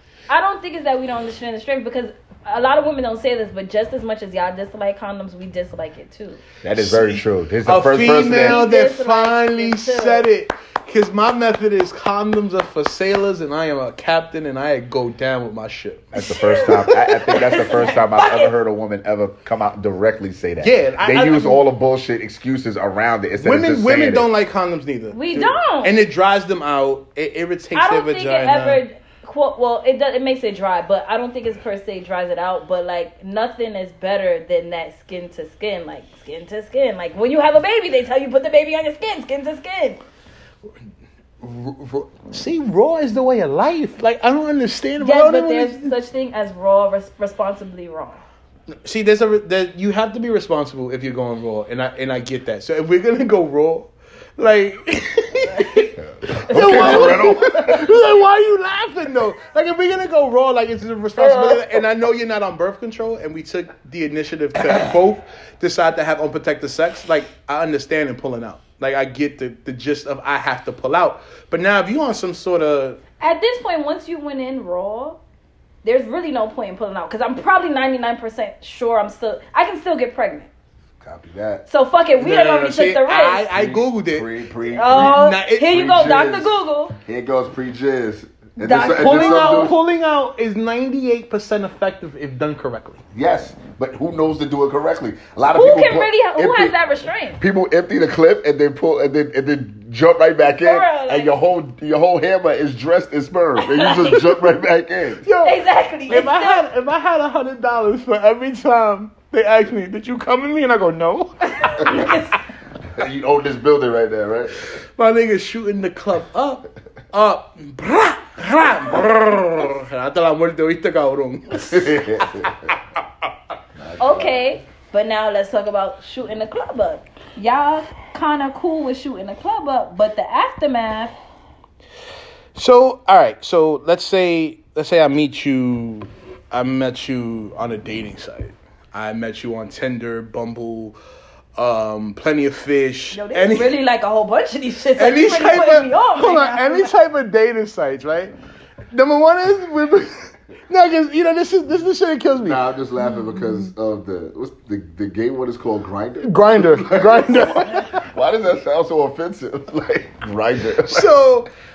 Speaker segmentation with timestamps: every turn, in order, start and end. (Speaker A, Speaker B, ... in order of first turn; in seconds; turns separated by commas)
Speaker A: 0.3-6.4, Speaker B: 6.6-8.6, Speaker C: 6.8-16.7, Speaker A: 8.2-10.3, Speaker B: 16.1-24.3, Speaker A: 16.2-18.5, Speaker C: 20.6-21.6, Speaker C: 23.4-28.8, Speaker A: 25.1-25.9, Speaker A: 27.7-40.0, Speaker C: 41.4-45.9, Speaker A: 45.0-48.2, Speaker C: 48.8-73.0, Speaker B: 56.0-58.0, Speaker A: 56.6-57.3, Speaker B: 61.2-61.6, Speaker A: 73.2-75.2, Speaker A: 75.8-80.5, Speaker B: 81.0-81.6, Speaker A: 81.7-83.5, Speaker C: 82.2-84.3, Speaker B: 83.5-89.8, Speaker A: 84.7-87.0, Speaker C: 84.9-85.7, Speaker A: 88.6-89.7, Speaker C: 88.8-93.0, Speaker B: 93.1-96.7, Speaker A: 95.5-97.4, Speaker B: 97.4-105.2, Speaker A: 100.6-101.3, Speaker A: 103.6-104.4, Speaker C: 105.2-112.1, Speaker A: 105.4-106.7, Speaker A: 111.5-112.4, Speaker B: 112.9-114.7, Speaker C: 115.0-122.8, Speaker B: 121.7-122.7, Speaker B: 123.8-124.4, Speaker A: 124.0-131.1, Speaker C: 132.5-141.0, Speaker C: 141.6-143.7, Speaker A: 143.1-146.9, Speaker C: 144.9-148.3, Speaker C: 148.9-152.6, Speaker B: 152.4-161.2, Speaker C: 156.2-158.0, Speaker C: 160.8-161.5